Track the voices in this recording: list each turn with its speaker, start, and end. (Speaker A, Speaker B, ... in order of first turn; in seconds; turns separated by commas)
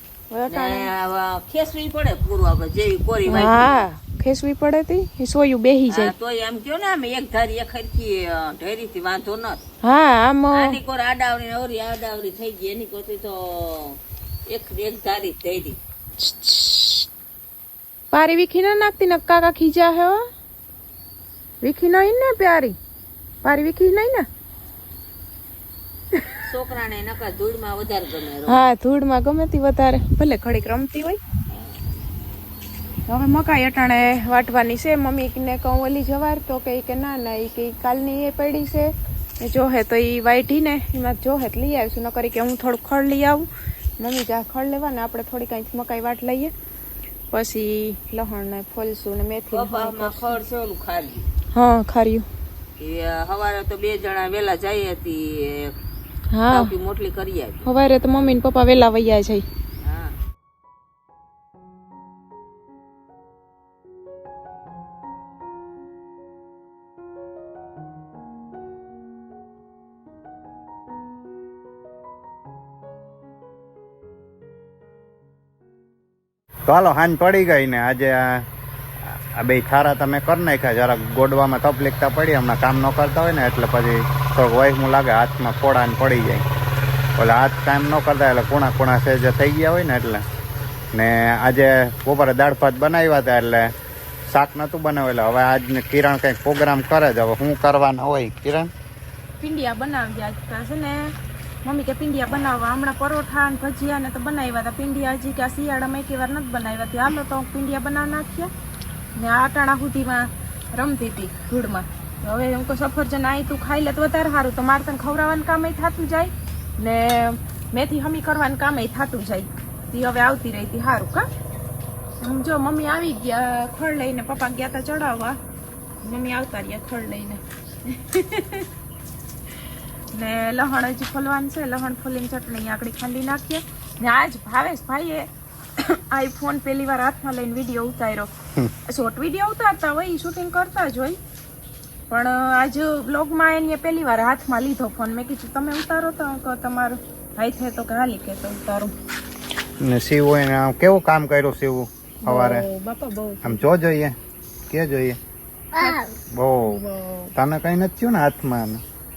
Speaker A: 0.3-0.9, Speaker B: 0.5-3.9, Speaker A: 3.3-6.1, Speaker B: 5.9-9.6, Speaker A: 9.8-10.8, Speaker B: 10.5-15.8, Speaker A: 16.2-17.1, Speaker A: 18.1-20.2, Speaker A: 21.6-22.8, Speaker A: 23.4-24.3, Speaker B: 26.4-28.6, Speaker A: 28.5-31.2, Speaker A: 33.1-43.5, Speaker A: 44.0-46.5, Speaker A: 47.3-50.4, Speaker B: 49.5-51.3, Speaker A: 51.5-52.3, Speaker B: 52.8-55.7, Speaker A: 56.3-56.7, Speaker B: 56.5-57.6, Speaker A: 57.6-59.5, Speaker B: 59.8-60.2, Speaker C: 76.7-78.5, Speaker C: 79.0-86.4, Speaker C: 87.2-90.2, Speaker C: 90.9-93.7, Speaker C: 94.3-98.7, Speaker A: 99.4-108.5, Speaker A: 109.2-121.3, Speaker A: 122.2-125.4, Speaker A: 126.0-128.7, Speaker A: 130.1-138.3, Speaker A: 138.9-141.2, Speaker A: 142.1-148.9, Speaker C: 149.8-152.7, Speaker A: 152.2-153.7, Speaker C: 153.4-154.2, Speaker C: 154.7-155.2, Speaker A: 155.8-157.3, Speaker C: 156.3-156.8, Speaker C: 157.4-158.8